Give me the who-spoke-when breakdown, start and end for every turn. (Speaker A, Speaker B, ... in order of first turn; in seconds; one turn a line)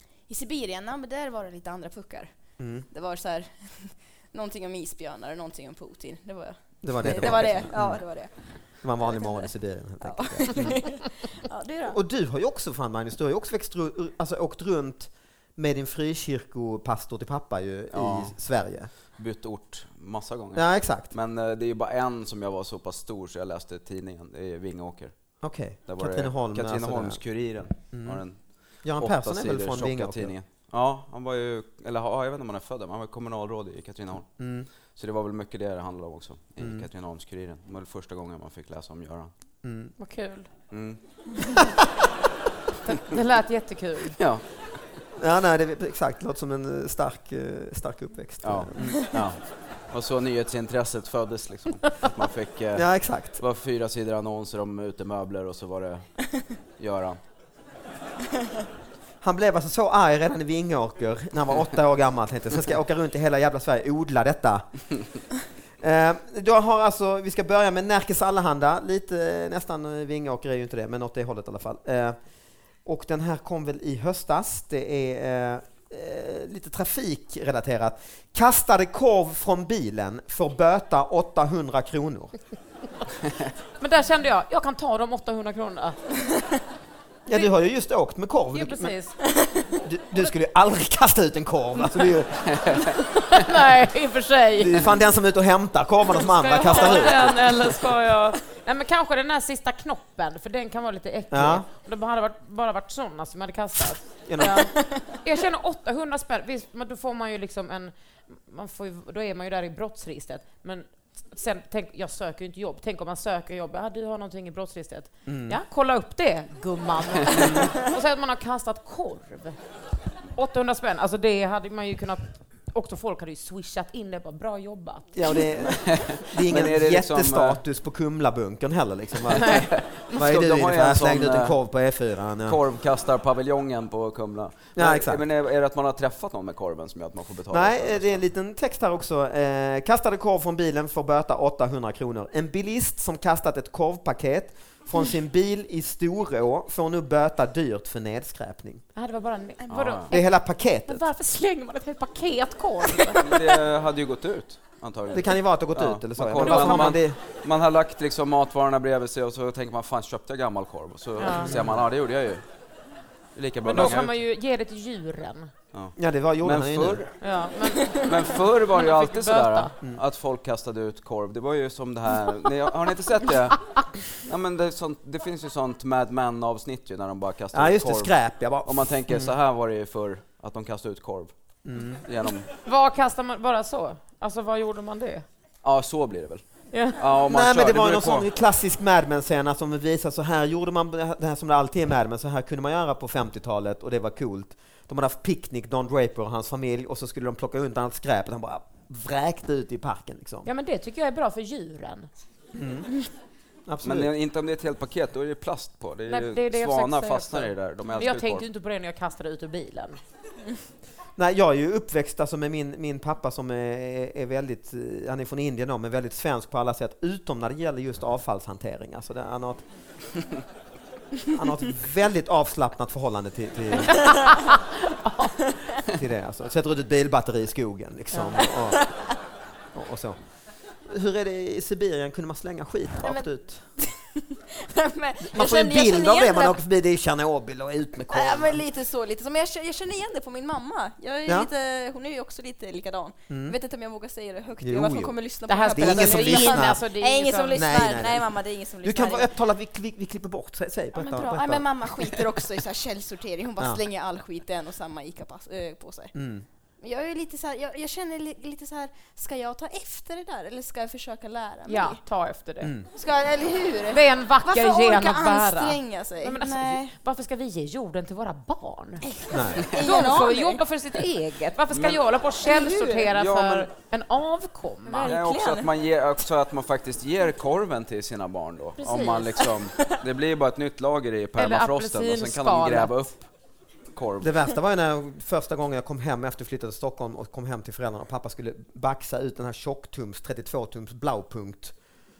Speaker A: 0.3-2.3
Speaker B: 2.6-2.9
Speaker A: 2.9-9.4
Speaker B: 6.8-8.0
Speaker B: 8.8-11.0
Speaker A: 10.0-12.0
Speaker B: 11.9-18.9
Speaker C: 17.9-18.4
Speaker C: 19.1-25.2
Speaker B: 20.5-21.1
Speaker B: 25.4-27.2
Speaker C: 25.8-34.3
Speaker B: 27.9-28.2
Speaker B: 28.8-30.3
Speaker B: 34.4-34.7
Speaker C: 34.9-39.3
Speaker B: 36.6-36.9
Speaker B: 39.6-39.9
Speaker D: 40.0-40.5
Speaker C: 40.7-41.0
Speaker D: 42.9-44.2
Speaker C: 44.2-44.4
Speaker B: 45.2-49.1
Speaker C: 48.4-49.4
Speaker C: 49.9-56.1
Speaker B: 52.7-53.4
Speaker C: 56.8-57.2
Speaker B: 59.2-64.6
Speaker B: 65.8-72.2
Speaker B: 72.8-82.3
Speaker D: 83.8-86.0
Speaker B: 87.2-88.9
Speaker D: 88.5-89.1
Speaker A: 89.3-89.8
Speaker B: 89.8-92.6
Speaker C: 92.5-92.9
Speaker D: 93.2-94.9
Speaker B: 94.6-97.4
Speaker D: 96.1-119.6
Speaker B: 101.3-101.7
Speaker B: 104.3-104.7
Speaker B: 115.2-115.6
Speaker D: 120.3-125.4
Speaker B: 125.1-132.6
Speaker C: 125.7-127.6
Speaker D: 129.3-129.7
Speaker C: 129.5-131.6
Speaker C: 132.4-138.2
Speaker B: 134.8-135.2
Speaker B: 137.5-148.8
Speaker D: 148.9-150.3
Speaker C: 149.7-150.1
Speaker B: 150.1-151.0
Speaker D: 150.8-153.6
Speaker C: 153.1-162.4
Speaker B: 155.1-157.2
Speaker D: 156.4-156.9
Speaker D: 161.2-161.6
Speaker B: 161.4-161.8
Speaker C: 163.3-164.2
Speaker D: 163.7-165.5
Speaker B: 163.7-164.0
Speaker C: 165.7-167.1
Speaker B: 166.0-167.0
Speaker D: 167.2-169.7
Speaker C: 167.9-181.3
Speaker B: 177.5-179.3
Speaker B: 181.6-182.0
Speaker C: 182.0-182.5
Speaker D: 182.6-185.2
Speaker C: 185.6-186.4
Speaker D: 186.7-187.0
Speaker C: 186.9-188.2
Speaker B: 187.3-200.5
Speaker D: 200.4-202.1
Speaker B: 202.5-202.9
Speaker B: 203.7-204.1
Speaker C: 203.8-208.4
Speaker D: 206.1-210.0
Speaker B: 211.2-219.6
Speaker B: 221.3-224.2
Speaker D: 224.3-225.3
Speaker B: 225.9-228.9
Speaker D: 228.1-228.4
Speaker B: 229.7-230.2
Speaker B: 230.8-233.6
Speaker A: 233.8-236.6
Speaker B: 235.2-238.6
Speaker A: 238.1-249.3
Speaker B: 243.3-243.6
Speaker B: 244.6-245.1
Speaker D: 245.5-247.6
Speaker B: 245.7-246.8
Speaker B: 247.5-251.9
Speaker A: 250.9-256.1
Speaker B: 256.1-256.4
Speaker A: 256.8-262.0
Speaker D: 261.7-262.7
Speaker B: 262.6-262.9
Speaker A: 262.9-266.9
Speaker D: 263.9-269.1
Speaker A: 269.0-270.6
Speaker B: 269.3-269.7
Speaker D: 269.7-275.1
Speaker C: 271.7-272.0
Speaker A: 272.4-273.1
Speaker C: 273.1-273.7
Speaker A: 274.9-275.7
Speaker C: 275.0-283.2
Speaker D: 278.8-279.5
Speaker D: 281.4-283.1
Speaker C: 283.9-284.3
Speaker B: 284.2-291.7